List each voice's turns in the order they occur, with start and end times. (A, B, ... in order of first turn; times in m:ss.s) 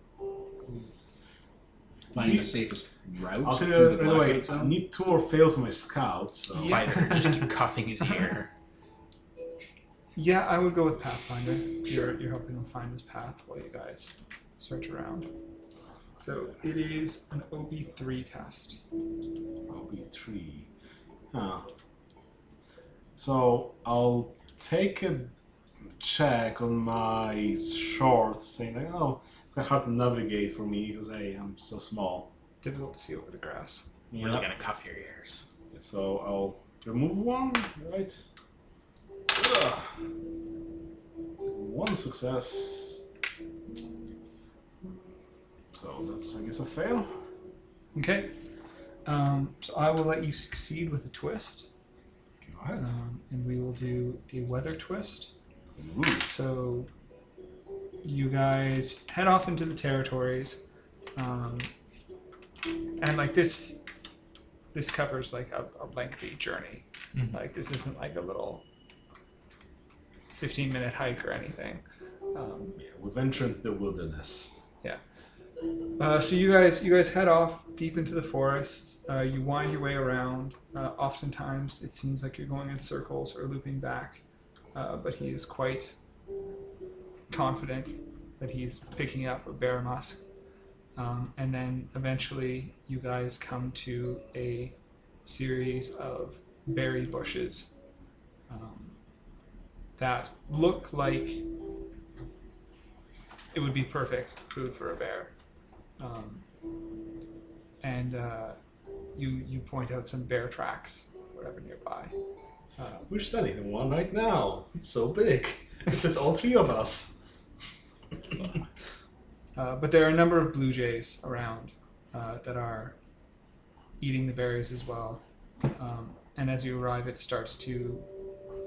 0:02.1-0:02.5 A
0:02.1-0:04.8 B
0:03.4-0:06.9 A
0:06.6-0:07.4 C
0:06.6-0:08.5 D
0:10.2-0:15.3 C
0:16.2-0:18.8 C
0:19.7-0:20.7 A
0:21.3-0:21.7 A
0:23.2-0:25.3 A
0:26.0-0:32.3 A
0:32.6-0:33.9 C
0:34.1-0:34.5 A
0:34.2-0:35.4 D
0:35.7-0:38.2 A
0:39.3-0:39.9 A
0:41.5-0:43.0 A
0:45.7-0:47.2 A
0:47.9-0:48.4 C
0:49.0-0:51.7 C
0:52.4-0:52.9 A
0:52.8-0:55.3 C
0:55.8-0:56.2 A
0:56.2-0:56.9 C
0:58.0-1:00.6 C
1:01.1-1:01.7 C
1:03.0-1:03.9 C
1:04.7-1:08.6 C
1:10.4-1:12.8 C
1:12.8-1:14.5 A
1:16.0-1:24.2 C
1:24.7-1:26.0 C
1:27.3-1:30.2 C
1:31.0-1:37.7 C
1:38.5-1:39.0 C
1:40.0-1:41.4 C
1:43.5-1:45.3 C
1:46.0-1:46.4 C
1:47.8-1:48.6 C
1:49.1-1:52.1 C
1:52.8-1:53.1 C
1:53.1-1:57.1 A
1:59.6-2:03.0 C
2:04.0-2:05.2 C
2:05.7-2:08.1 C